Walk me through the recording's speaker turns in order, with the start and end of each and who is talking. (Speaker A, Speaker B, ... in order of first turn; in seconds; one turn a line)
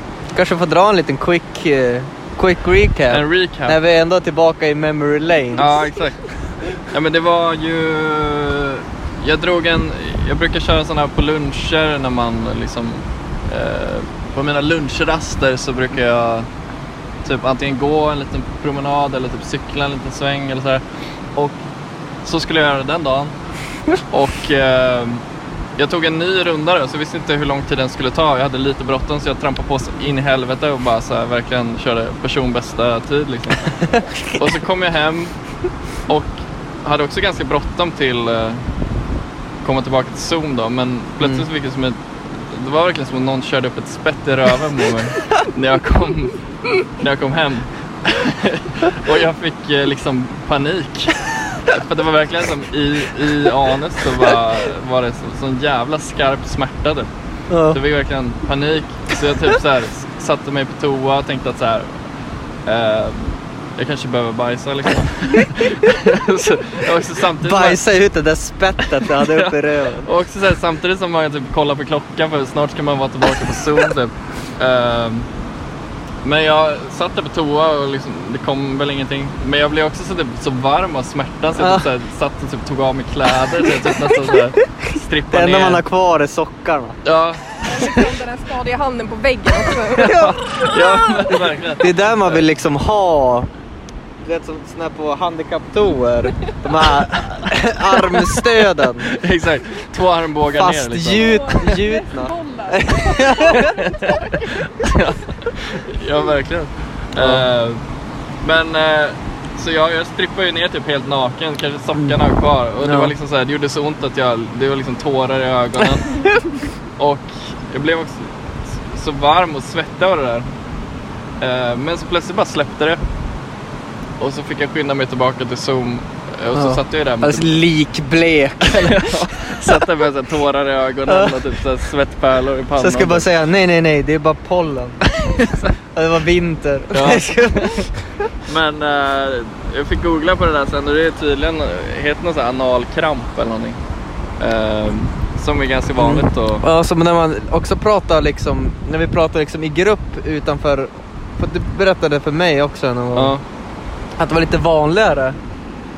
Speaker A: 0.3-5.8
Speaker B: 3.1-3.8
Speaker B: 5.5-16.5
Speaker B: 17.2-21.6
Speaker B: 22.2-23.4
Speaker B: 24.1-25.2
Speaker B: 25.8-38.8
Speaker A: 33.9-34.4
Speaker B: 39.6-57.1
Speaker A: 41.2-41.5
Speaker A: 57.5-57.8
Speaker B: 57.7-62.0
Speaker B: 62.6-67.8
Speaker A: 67.4-70.1
Speaker B: 69.1-75.3
Speaker B: 76.2-85.8
Speaker A: 81.5-81.8
Speaker A: 83.7-84.2
Speaker A: 85.3-87.0
Speaker B: 87.0-88.0
Speaker C: 87.6-90.1
Speaker A: 89.9-90.4
Speaker B: 90.0-92.4
Speaker A: 91.8-93.5
Speaker A: 94.2-99.1
Speaker B: 99.0-101.5
Speaker A: 100.5-103.7
Speaker C: 101.2-104.7
Speaker B: 103.6-107.8
Speaker A: 107.2-107.5
Speaker B: 108.4-116.2
Speaker A: 112.8-113.1
Speaker B: 117.0-120.5
Speaker B: 121.4-123.0
Speaker B: 124.2-127.6
Speaker A: 126.5-129.8
Speaker B: 128.8-133.2
Speaker A: 131.1-131.4
Speaker A: 132.8-135.0
Speaker B: 135.2-135.7
Speaker A: 135.9-138.3
Speaker B: 136.9-137.9
Speaker B: 138.4-143.8
Speaker B: 144.4-146.6
Speaker A: 146.0-153.3
Speaker B: 153.1-153.4
Speaker A: 154.2-155.4